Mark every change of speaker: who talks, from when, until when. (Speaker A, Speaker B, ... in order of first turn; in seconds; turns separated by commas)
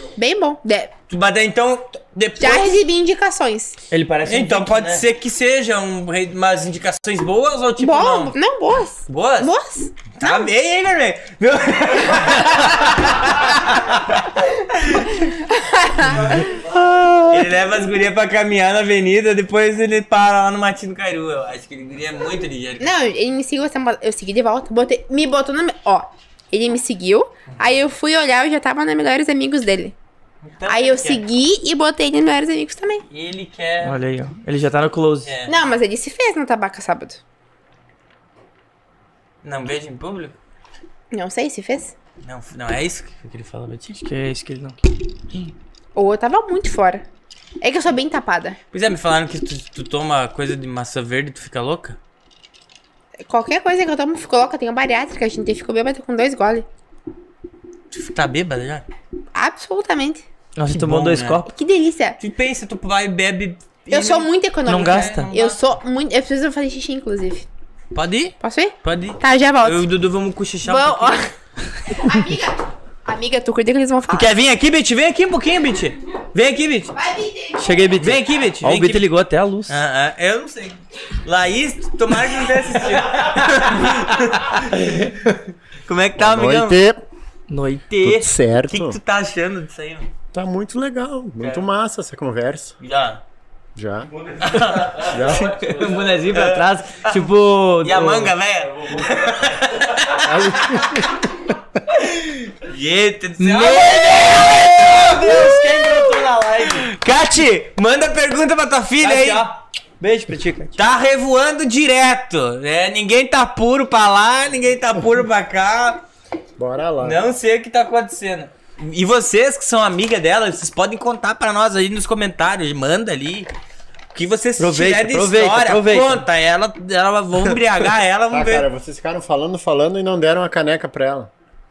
Speaker A: 0.2-0.9, Speaker B: 1.1-2.8, Speaker A: 2.4-3.8, Speaker C: 3.9-5.0, Speaker B: 4.2-8.4, Speaker A: 7.8-10.5, Speaker B: 9.1-9.5, Speaker B: 10.1-15.1, Speaker A: 15.1-16.5, Speaker D: 16.0-17.2, Speaker C: 17.0-17.3, Speaker B: 17.2-22.9, Speaker A: 22.8-29.9, Speaker B: 30.4-31.2, Speaker A: 30.6-33.0, Speaker B: 33.1-34.0, Speaker C: 33.8-35.3, Speaker B: 35.2-35.6, Speaker A: 35.5-37.2, Speaker B: 39.4-40.4, Speaker A: 41.1-41.9, Speaker B: 42.2-43.9, Speaker C: 43.9-44.8, Speaker A: 45.9-47.0, Speaker A: 47.6-48.6, Speaker B: 48.7-52.0, Speaker A: 53.3-56.6, Speaker B: 57.9-58.9, Speaker A: 59.3-60.2, Speaker C: 60.6-61.5, Speaker B: 60.7-61.4, Speaker A: 61.5-62.2, Speaker B: 62.2-65.6, Speaker A: 63.9-67.5, Speaker C: 64.7-65.3, Speaker B: 67.9-71.2, Speaker A: 68.4-69.9, Speaker A: 70.6-71.3, Speaker A: 71.9-74.3, Speaker C: 71.9-72.2, Speaker B: 74.1-76.9, Speaker A: 76.9-78.0, Speaker C: 77.6-79.8, Speaker B: 78.0-79.1, Speaker B: 79.7-84.9, Speaker B: 85.8-86.8, Speaker D: 86.2-87.0, Speaker C: 87.5-88.4, Speaker D: 88.0-89.0, Speaker B: 88.6-90.1, Speaker D: 90.3-92.8, Speaker B: 91.4-91.7, Speaker B: 92.8-93.2, Speaker D: 93.8-94.1, Speaker B: 94.4-97.2, Speaker C: 94.5-98.3, Speaker D: 94.9-95.6, Speaker B: 97.8-100.9, Speaker D: 100.1-101.2, Speaker B: 102.6-109.5, Speaker C: 103.4-106.9, Speaker C: 109.0-110.8, Speaker B: 110.8-116.0, Speaker D: 116.6-117.2, Speaker B: 117.0-123.5, Speaker B: 124.1-128.7, Speaker C: 124.6-126.2, Speaker D: 128.3-131.3